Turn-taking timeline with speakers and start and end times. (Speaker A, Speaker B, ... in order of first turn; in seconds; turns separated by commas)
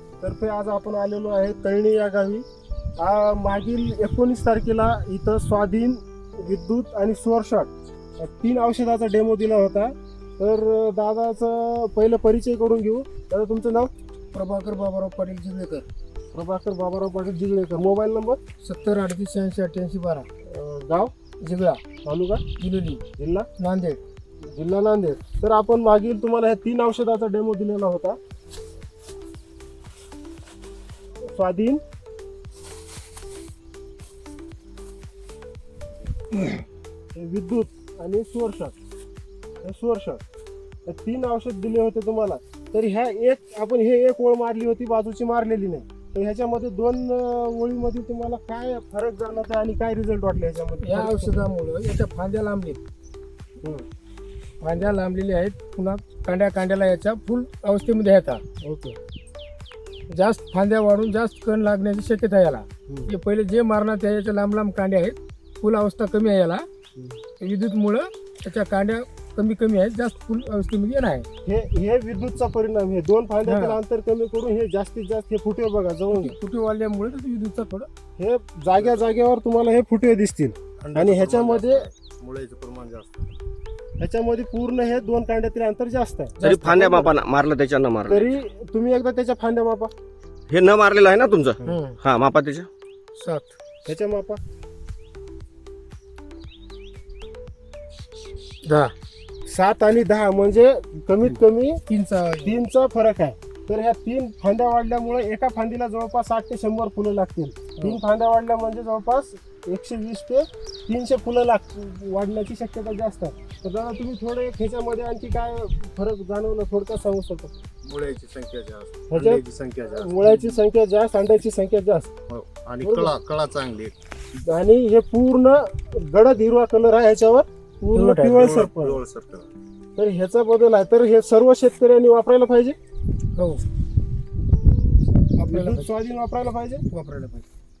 Speaker A: 0.2-2.5, Speaker A: 3.0-13.9, Speaker B: 14.3-15.8, Speaker A: 16.3-18.4, Speaker B: 18.6-20.3, Speaker A: 20.4-21.1, Speaker B: 21.4-21.8, Speaker A: 22.0-22.4, Speaker B: 22.6-23.0, Speaker A: 23.2-23.5, Speaker B: 23.6-24.0, Speaker A: 24.4-28.2, Speaker A: 31.2-31.8, Speaker A: 37.1-38.7, Speaker A: 39.6-40.2, Speaker A: 40.9-51.4, Speaker B: 50.8-52.8, Speaker A: 53.6-53.9, Speaker B: 54.6-58.4, Speaker A: 58.6-59.0, Speaker B: 60.1-66.7, Speaker A: 62.9-63.1, Speaker B: 67.4-71.3, Speaker A: 71.4-76.4, Speaker B: 73.4-73.8, Speaker B: 76.1-77.9, Speaker A: 78.2-81.9, Speaker C: 80.8-83.3, Speaker A: 84.0-86.4, Speaker B: 86.4-87.1, Speaker D: 86.4-88.3, Speaker A: 88.1-89.9, Speaker D: 90.5-92.7, Speaker B: 91.6-92.0, Speaker B: 93.2-93.5, Speaker A: 93.8-94.4, Speaker B: 98.6-98.9, Speaker A: 99.5-101.8, Speaker B: 101.9-102.6, Speaker A: 102.4-117.5, Speaker C: 117.8-120.5, Speaker A: 119.1-122.1, Speaker C: 122.3-123.9, Speaker A: 122.8-123.1, Speaker A: 124.4-129.0, Speaker B: 127.9-128.5, Speaker C: 128.4-129.5, Speaker A: 129.9-132.8, Speaker B: 133.3-133.6, Speaker B: 135.4-135.9, Speaker A: 135.5-136.8, Speaker B: 136.9-137.4